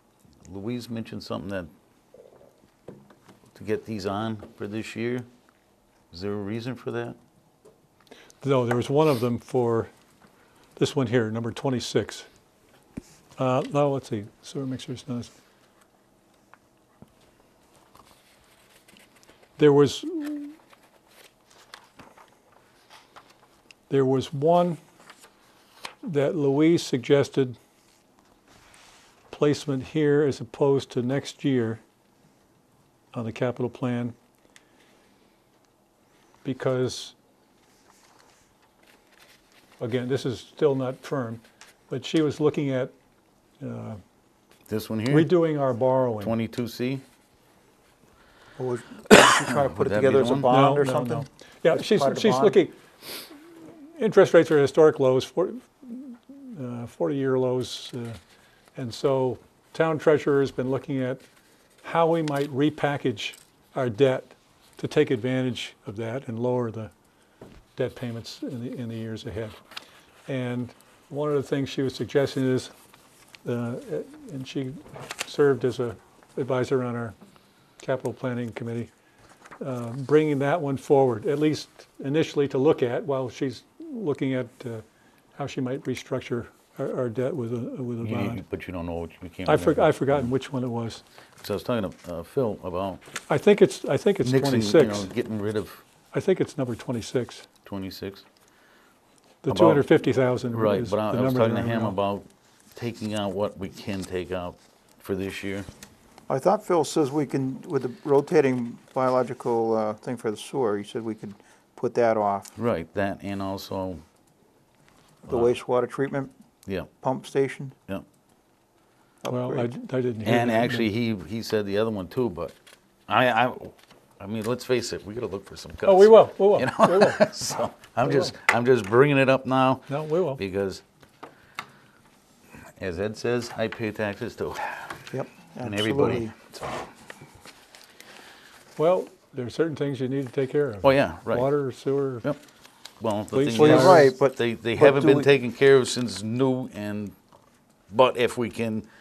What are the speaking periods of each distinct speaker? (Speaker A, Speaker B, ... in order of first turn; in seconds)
Speaker A: 0.5-1.7, 3.5-5.3, 6.1-7.2, 44.7-45.3, 46.2-47.0, 49.6-50.5, 88.0-90.3, 91.4-93.0, 94.2-95.8, 97.7-98.2, 99.5-99.8, 100.5-105.7, 112.6-114.0, 115.2-115.5, 120.2-122.5, 123.1-130.8, 132.8-136.6, 140.8-141.5, 143.0-147.2, 147.9-148.9
Speaker B: 8.4-9.9, 10.8-12.3, 13.4-15.3, 19.6-20.5, 23.9-24.8, 26.0-27.6, 29.3-31.8, 33.1-34.1, 36.4-37.1, 39.8-42.9, 43.6-44.0, 45.1-46.3, 50.5-52.7, 54.0-58.2, 58.8-61.2, 61.8-66.9, 67.8-69.6, 70.3-72.7, 73.4-77.2, 77.8-78.9, 79.6-84.8, 85.4-88.4, 89.5-91.0, 93.3-95.1, 96.1-97.5, 99.4-102.0, 119.3-120.9, 125.8-127.3, 129.9-130.4, 138.8-142.3, 143.3-144.1
Speaker C: 48.6-52.6, 106.3-112.5, 115.3-116.3, 117.0-117.8, 119.2-119.7, 135.1-136.3, 143.5-145.3